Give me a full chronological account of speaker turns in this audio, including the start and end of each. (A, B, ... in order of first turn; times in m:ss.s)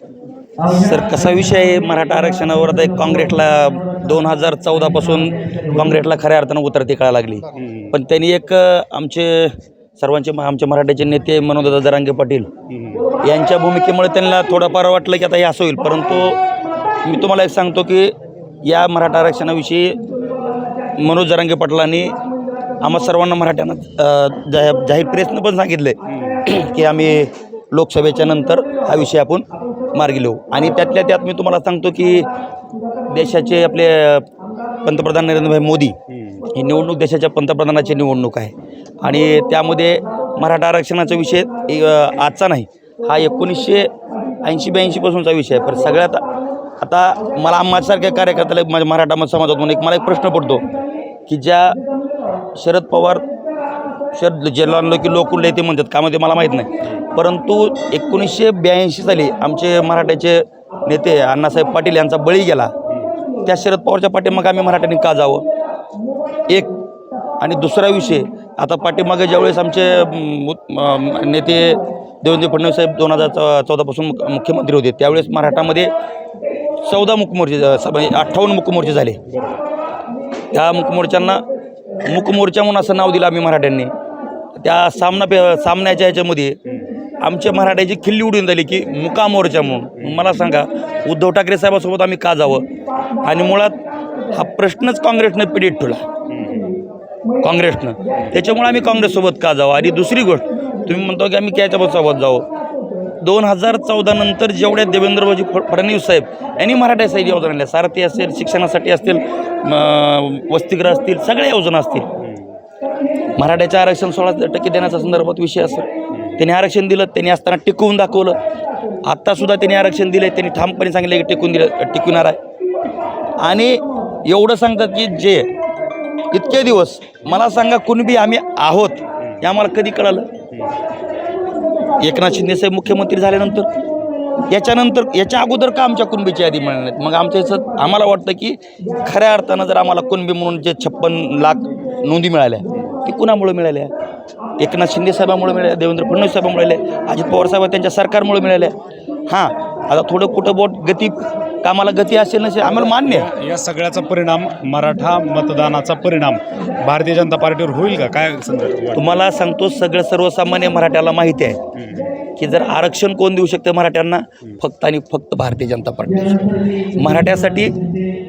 0:00.6-0:12.5 A
0:07.6-0:07.9 B
0:12.7-0:13.1 B
0:13.2-0:16.4 A
0:17.0-0:18.1 A
0:18.6-0:20.0 A
0:21.0-0:22.2 A
0:22.8-0:32.3 A
0:26.1-0:26.5 B
0:33.1-0:34.3 A
0:34.8-0:36.0 A
0:36.1-0:36.5 B
0:36.5-0:43.9 A
0:44.4-0:46.2 A
0:46.8-0:50.7 A
0:51.3-0:51.8 A
0:52.6-0:53.2 A
0:54.1-1:02.7 A
1:03.4-1:05.5 A
1:07.4-1:15.9 A
1:16.8-1:19.2 A
1:19.3-1:19.6 B
1:20.5-1:21.4 A
1:22.0-1:23.9 A
1:24.6-1:26.6 A
1:26.7-1:27.0 B
1:27.2-1:32.7 A
1:30.0-1:30.2 B
1:33.2-1:33.8 A
1:34.3-1:36.0 A
1:36.3-1:36.8 B
1:37.4-1:42.5 A
1:43.2-1:52.1 A
1:52.2-1:52.6 B
1:53.4-1:58.4 A
1:56.1-1:56.4 B
1:59.0-2:02.4 A
2:03.4-2:05.5 A
2:06.3-2:10.3 A
2:12.0-2:13.7 A
2:14.5-2:23.9 A
2:24.6-2:28.8 A
2:29.3-2:33.3 A
2:32.7-2:39.0 B
2:39.0-2:41.6 A
2:41.8-2:42.2 B
2:42.4-2:47.8 A